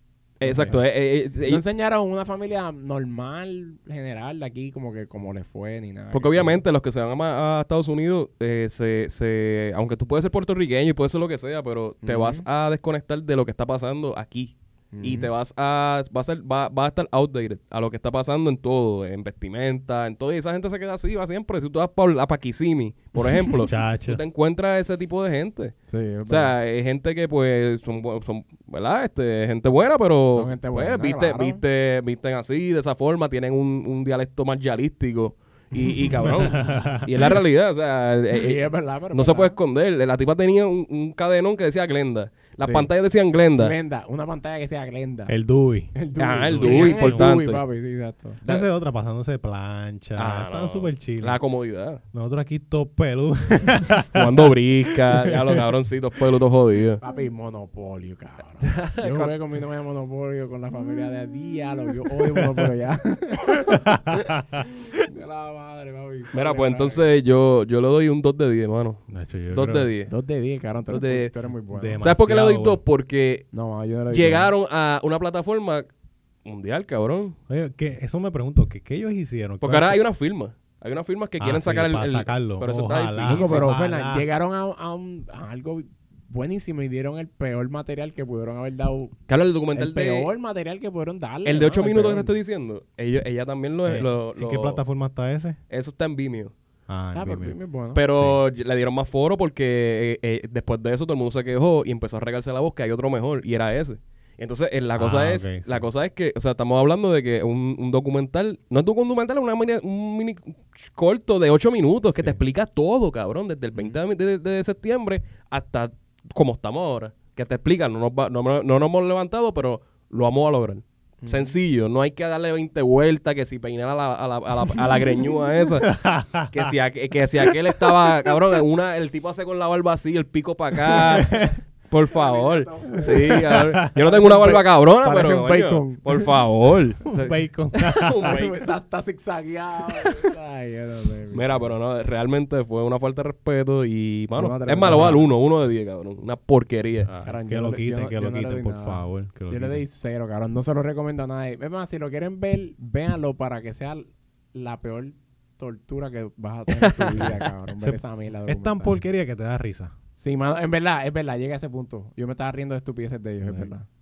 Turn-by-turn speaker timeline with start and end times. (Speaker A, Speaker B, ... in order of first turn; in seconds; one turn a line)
Speaker A: 0.4-1.6
Speaker B: 0.4-0.8
Speaker B: 1.4-6.6
Speaker A: 6.1-25.8
Speaker B: 12.0-12.4
Speaker B: 14.9-15.3
Speaker B: 23.2-23.5
Speaker C: 23.6-24.2
Speaker B: 25.9-26.5
Speaker A: 26.3-43.7
Speaker B: 30.3-31.6
Speaker B: 35.7-36.9
Speaker C: 36.3-37.1
Speaker B: 38.3-39.5
Speaker B: 42.6-42.9
Speaker B: 43.5-45.3
Speaker C: 45.3-47.3
Speaker B: 45.9-48.6
Speaker A: 46.2-47.6
Speaker C: 48.4-51.4
Speaker A: 50.2-52.0
Speaker C: 52.1-55.6
Speaker A: 54.1-57.0
Speaker B: 57.0-63.8
Speaker A: 58.6-59.3
Speaker C: 63.6-64.7
Speaker B: 65.1-67.0
Speaker A: 66.3-70.1
Speaker C: 69.1-69.9
Speaker B: 70.1-72.0
Speaker A: 70.9-71.3
Speaker C: 71.7-72.8
Speaker A: 72.0-73.5
Speaker B: 73.5-74.5
Speaker A: 74.1-75.9
Speaker A: 76.4-77.3
Speaker C: 77.5-80.0
Speaker A: 79.6-83.7
Speaker C: 81.4-84.2
Speaker B: 83.2-89.1
Speaker A: 89.3-90.3
Speaker B: 89.7-92.3
Speaker A: 91.4-94.8
Speaker C: 93.8-95.6
Speaker A: 95.7-96.5
Speaker C: 96.9-97.6
Speaker B: 97.1-98.0
Speaker A: 97.9-125.9
Speaker C: 98.1-98.4
Speaker C: 105.0-105.9
Speaker B: 113.7-114.0
Speaker B: 121.2-121.6
Speaker C: 125.8-126.7
Speaker A: 126.5-137.3
Speaker C: 127.5-127.9
Speaker C: 130.9-131.4
Speaker B: 131.2-131.5
Speaker B: 132.1-136.3
Speaker C: 133.5-133.9
Speaker C: 137.1-138.4
Speaker A: 137.9-138.6
Speaker B: 138.2-141.7
Speaker A: 141.3-147.1
Speaker B: 144.3-145.2
Speaker C: 144.9-145.2
Speaker C: 147.0-149.8
Speaker B: 147.2-158.9
Speaker A: 156.7-157.5
Speaker C: 157.8-159.9
Speaker B: 160.2-163.8